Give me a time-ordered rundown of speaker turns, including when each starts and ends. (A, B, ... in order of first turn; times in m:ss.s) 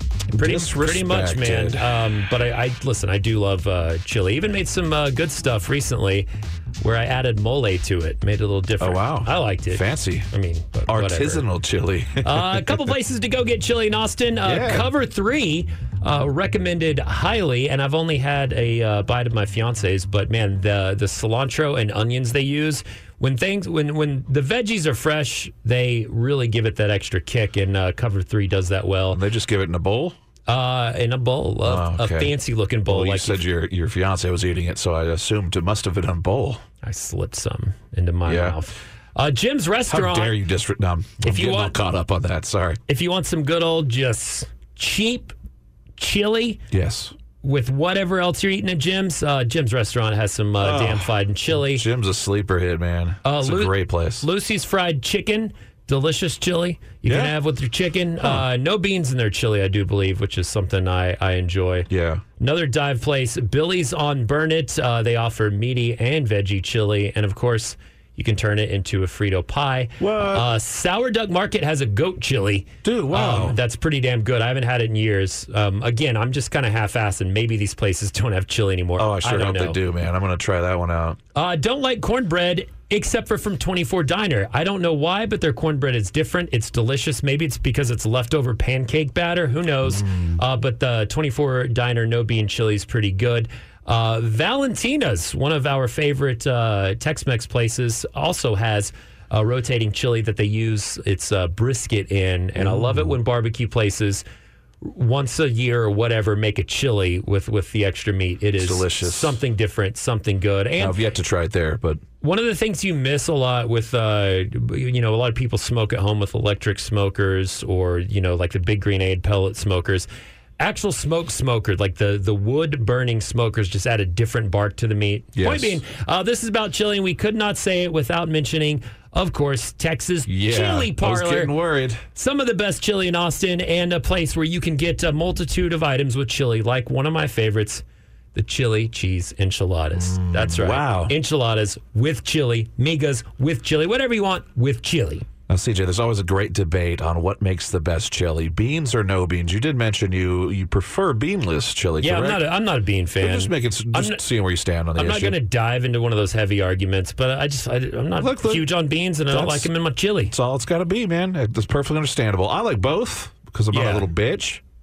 0:00.3-0:01.8 A
0:00.4-0:06.3 B
0:06.8-0:11.4 B
0:08.8-0:10.3 A
0:10.9-0:12.7 A
0:12.2-0:29.2 B
0:14.4-0:14.9 A
0:29.1-0:30.2 A
0:30.5-0:33.4 B
0:31.6-0:36.6 A
0:36.8-0:40.4 B
0:38.2-0:38.6 A
0:39.9-0:42.8 A
0:41.2-0:41.8 B
0:42.9-0:45.3 B
0:46.0-0:46.6 B
0:46.7-0:47.1 A
0:47.4-0:51.9 B
0:50.6-0:54.3 A
0:53.2-1:01.9 B
0:57.0-0:57.4 A
0:58.2-0:58.5 A
1:01.9-1:02.2 A
1:02.4-1:19.8 B
1:10.0-1:10.5 A
1:12.8-1:13.6 A
1:19.0-1:21.2 A
1:21.4-1:44.2 B
1:29.8-1:30.4 A
1:42.6-1:43.2 A
1:44.8-1:51.0 B
1:48.6-1:49.4 A
1:50.8-1:52.0 A
1:52.2-2:00.1 B
2:00.6-2:11.5 B
2:05.4-2:05.8 A
2:10.3-2:12.0 A
2:12.2-2:17.8 B
2:18.4-2:25.3 B
2:20.0-2:21.2 A
2:25.5-2:32.4 A
2:32.0-2:34.2 B
2:33.2-2:35.4 A
2:35.0-2:40.3 B
2:38.2-2:38.7 A
2:39.3-2:39.7 A
2:40.3-2:44.6 A
2:43.7-2:44.1 B